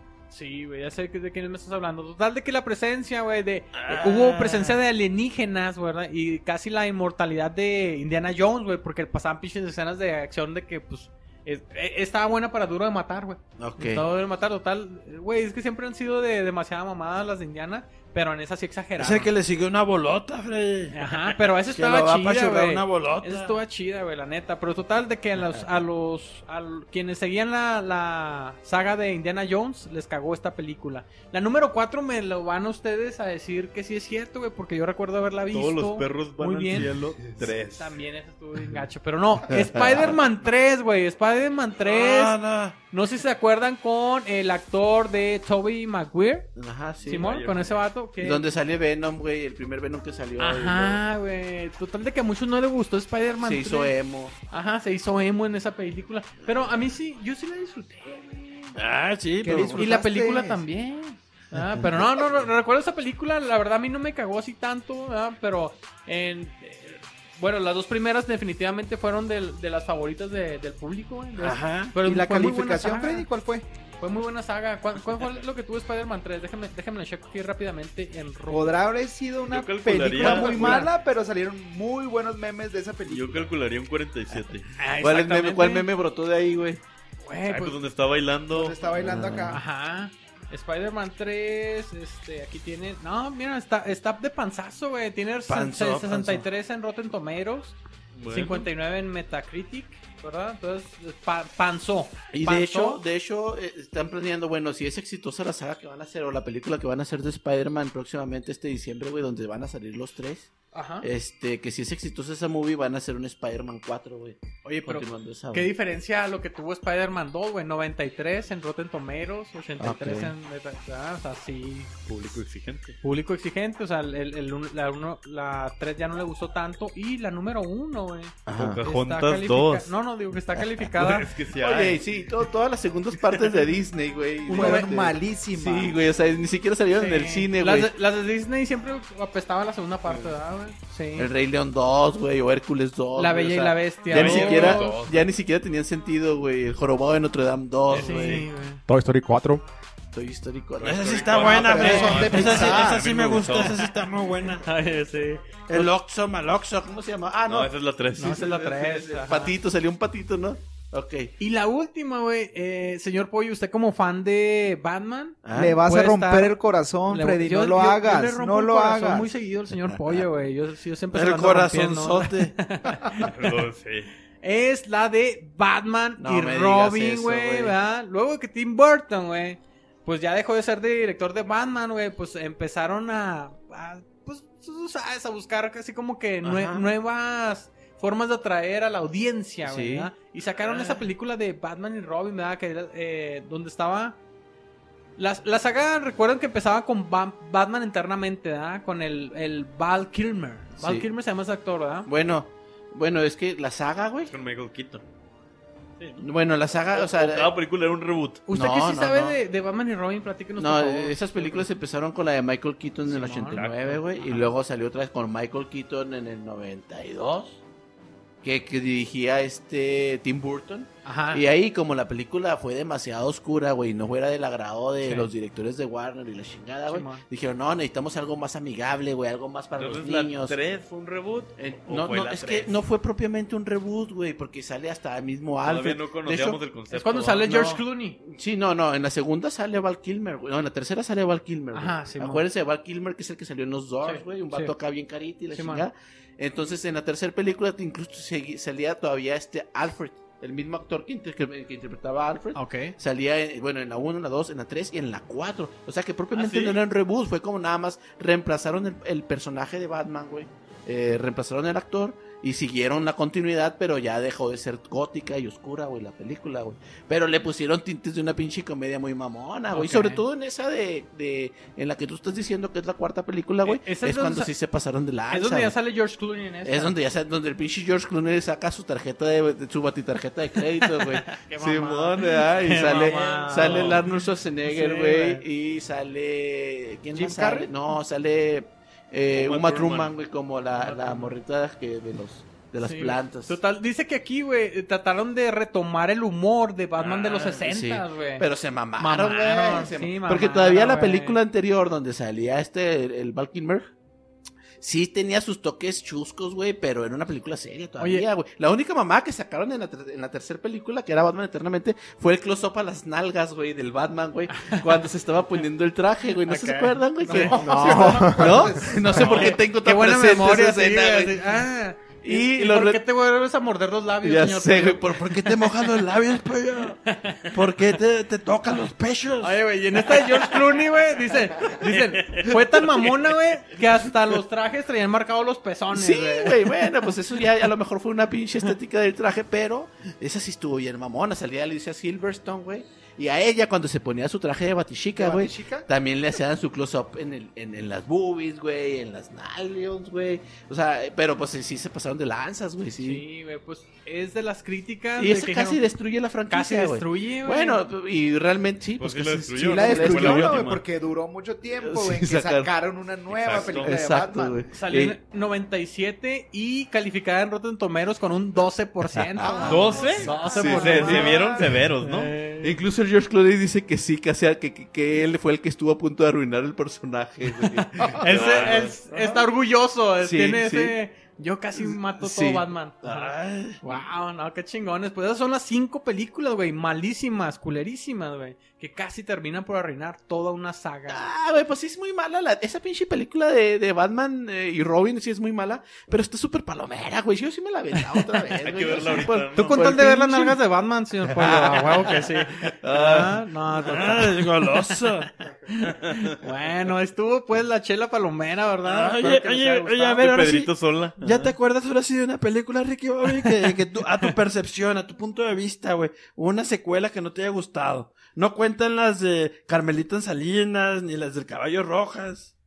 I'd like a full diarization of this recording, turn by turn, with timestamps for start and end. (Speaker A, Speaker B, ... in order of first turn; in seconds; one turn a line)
Speaker A: 0.3-19.3
Speaker B: 3.7-4.6
Speaker C: 13.6-14.0
Speaker B: 19.0-21.0
Speaker A: 20.9-36.9
Speaker B: 21.6-23.6
Speaker D: 35.5-38.0
Speaker A: 37.8-46.5
Speaker C: 39.5-40.1
Speaker B: 41.9-42.7
Speaker C: 46.5-47.3
Speaker D: 47.0-47.8
Speaker A: 47.0-48.4
Speaker C: 48.2-51.0
Speaker A: 50.4-53.9
Speaker C: 53.4-54.3
Speaker A: 54.5-58.8
Speaker B: 58.7-59.8
Speaker E: 59.4-60.6
Speaker A: 59.7-73.3
Speaker B: 71.4-71.9
Speaker E: 72.0-73.7
Speaker A: 74.0-78.8
Speaker E: 78.5-83.5
Speaker D: 79.5-80.9
Speaker A: 80.1-80.9
Speaker D: 83.1-84.7
Speaker A: 84.8-85.9
Speaker C: 85.0-86.8
Speaker A: 87.2-87.8
Speaker D: 87.5-88.8
Speaker E: 88.5-89.6
Speaker C: 89.0-89.6
Speaker A: 89.5-103.0
Speaker B: 95.5-96.4
Speaker D: 98.1-98.7
Speaker C: 102.3-110.5
Speaker A: 110.7-111.1
Speaker C: 111.0-115.7
Speaker A: 114.8-122.0
Speaker C: 119.8-120.3
Speaker D: 122.1-123.0
Speaker A: 123.0-131.3
Speaker C: 128.5-128.8
Speaker D: 128.6-129.9
Speaker D: 130.9-132.0
Speaker C: 131.6-137.9
Speaker A: 134.5-134.9
Speaker E: 134.5-136.0
Speaker A: 136.9-141.3
Speaker C: 141.2-148.5
Speaker A: 143.1-145.0
Speaker D: 144.1-145.2
Speaker D: 147.9-148.4
Speaker A: 147.9-148.8
Speaker F: 148.9-149.6
Speaker C: 150.1-152.2
Speaker D: 150.8-153.8
Speaker B: 150.8-154.6
Speaker E: 151.5-153.1
Speaker A: 151.8-152.3
Speaker A: 153.5-153.9
Speaker A: 154.6-155.5
Speaker B: 155.7-156.7
Speaker C: 155.7-161.3
Speaker D: 157.4-158.5
Speaker A: 158.2-159.5
Speaker A: 161.4-166.6
Speaker C: 165.4-165.8
Speaker E: 165.5-169.3
Speaker A: 167.1-173.3
Speaker C: 169.9-170.2
Speaker B: 171.2-172.0
Speaker C: 171.6-172.5
Speaker D: 173.2-174.1
Speaker A: 174.4-194.2
Speaker C: 176.2-177.8
Speaker C: 186.4-186.9
Speaker C: 189.6-190.1
Speaker D: 190.6-191.0
Speaker A: 195.2-202.1
Speaker C: 200.8-201.1
Speaker C: 202.1-204.3
Speaker D: 204.3-205.0
Speaker C: 206.2-207.5
Speaker D: 206.9-208.4
Speaker A: 208.5-211.7
Speaker C: 208.5-209.4
Speaker C: 210.6-217.6
Speaker A: 213.1-214.5
Speaker D: 213.5-214.0
Speaker C: 218.4-230.6
Speaker A: 221.0-221.4
Speaker A: 225.0-225.3
Speaker A: 226.9-227.2
Speaker D: 229.8-232.7
Speaker C: 231.6-236.6
Speaker D: 235.6-237.5
Speaker A: 236.9-238.2
Speaker C: 237.4-275.7
Speaker A: 241.7-242.4
Speaker A: 244.0-244.7
Speaker A: 245.5-245.9
Speaker A: 252.5-252.9
Speaker D: 256.3-256.8
Speaker A: 269.7-270.2
Speaker A: 273.6-274.5
Speaker A: 275.3-276.9
Speaker C: 276.6-293.6
Speaker A: 280.7-285.4
Speaker D: 282.9-284.0
Speaker E: 287.1-287.7
Speaker D: 289.3-290.1
Speaker A: 290.8-291.4
Speaker A: 292.8-298.5
Speaker D: 297.0-297.6
Speaker C: 297.6-303.9
Speaker A: 299.0-301.4
Speaker C: 304.8-321.5
Speaker A: 308.0-308.3
Speaker A: 314.5-314.9
Speaker A: 316.4-318.4
Speaker E: 317.3-319.4
Speaker F: 317.6-318.8
Speaker A: 319.1-325.3
Speaker D: 319.1-319.6
Speaker C: 322.2-323.0
Speaker C: 324.2-325.6
Speaker B: 325.3-327.0
Speaker A: 327.0-327.5
Speaker B: 327.5-329.6
Speaker C: 327.7-328.0
Speaker A: 329.4-336.7
Speaker D: 331.8-332.5
Speaker C: 335.9-353.2
Speaker E: 345.1-345.9
Speaker A: 353.0-355.8
Speaker C: 355.2-360.7
Speaker A: 356.5-357.8
Speaker D: 359.0-360.8
Speaker E: 359.6-364.6
Speaker C: 361.8-362.7
Speaker D: 363.3-363.9
Speaker C: 363.6-365.2
Speaker A: 364.7-372.8
Speaker C: 369.3-371.4
Speaker E: 369.4-371.8
Speaker D: 369.7-372.3
Speaker C: 372.6-378.8
Speaker A: 378.2-391.3
Speaker D: 378.2-378.9
Speaker C: 380.2-380.9
Speaker C: 382.2-382.6
Speaker B: 383.0-383.8
Speaker C: 391.1-400.6
Speaker D: 398.6-399.9
Speaker A: 399.5-405.1
Speaker C: 401.3-402.2
Speaker C: 402.8-403.3
Speaker B: 402.9-403.3
Speaker B: 403.8-405.3
Speaker A: 405.6-410.2
Speaker B: 408.8-422.5
Speaker D: 410.2-411.5
Speaker A: 413.2-414.3